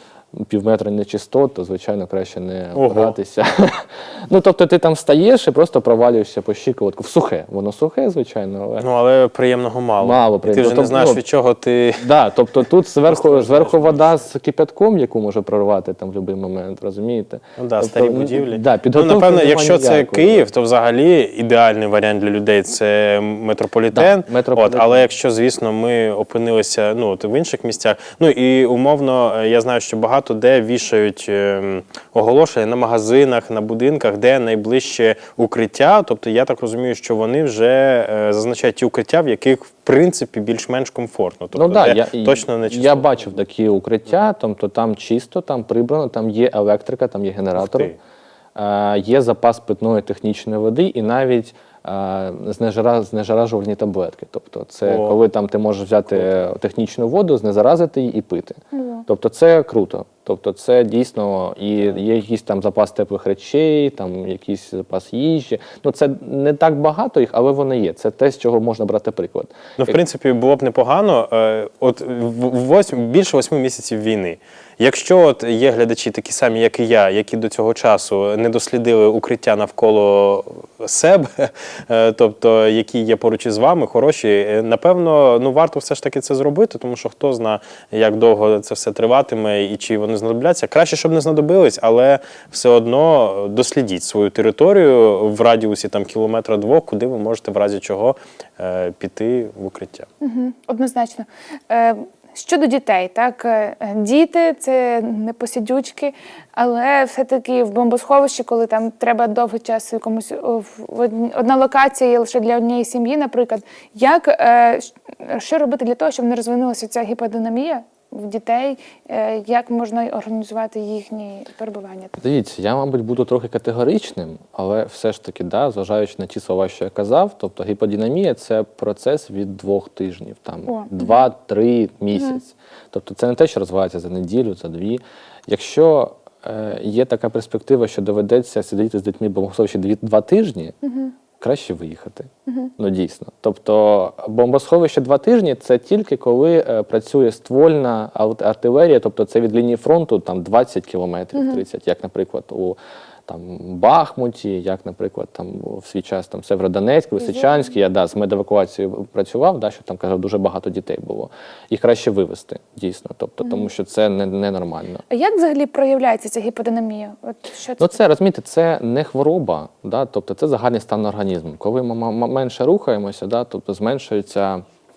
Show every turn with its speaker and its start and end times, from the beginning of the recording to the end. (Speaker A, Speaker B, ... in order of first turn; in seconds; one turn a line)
Speaker A: 0.3-8.8
Speaker B: 2.7-3.1
Speaker B: 8.8-12.1
Speaker A: 10.0-11.2
Speaker A: 12.0-20.4
Speaker B: 13.1-14.2
Speaker B: 17.6-43.3
Speaker A: 23.9-25.0
Speaker A: 41.5-47.9
Speaker B: 47.5-47.9
Speaker A: 48.5-70.0
Speaker B: 54.8-55.2
Speaker C: 58.7-59.0
Speaker B: 69.8-100.1
Speaker C: 100.2-122.1
Speaker A: 122.2-140.7
Speaker C: 130.7-131.2
Speaker C: 140.8-141.1
Speaker A: 141.4-165.0
Speaker C: 151.3-151.6
Speaker C: 157.2-157.6
Speaker C: 163.4-163.7
Speaker C: 165.1-167.9
Speaker A: 167.8-174.6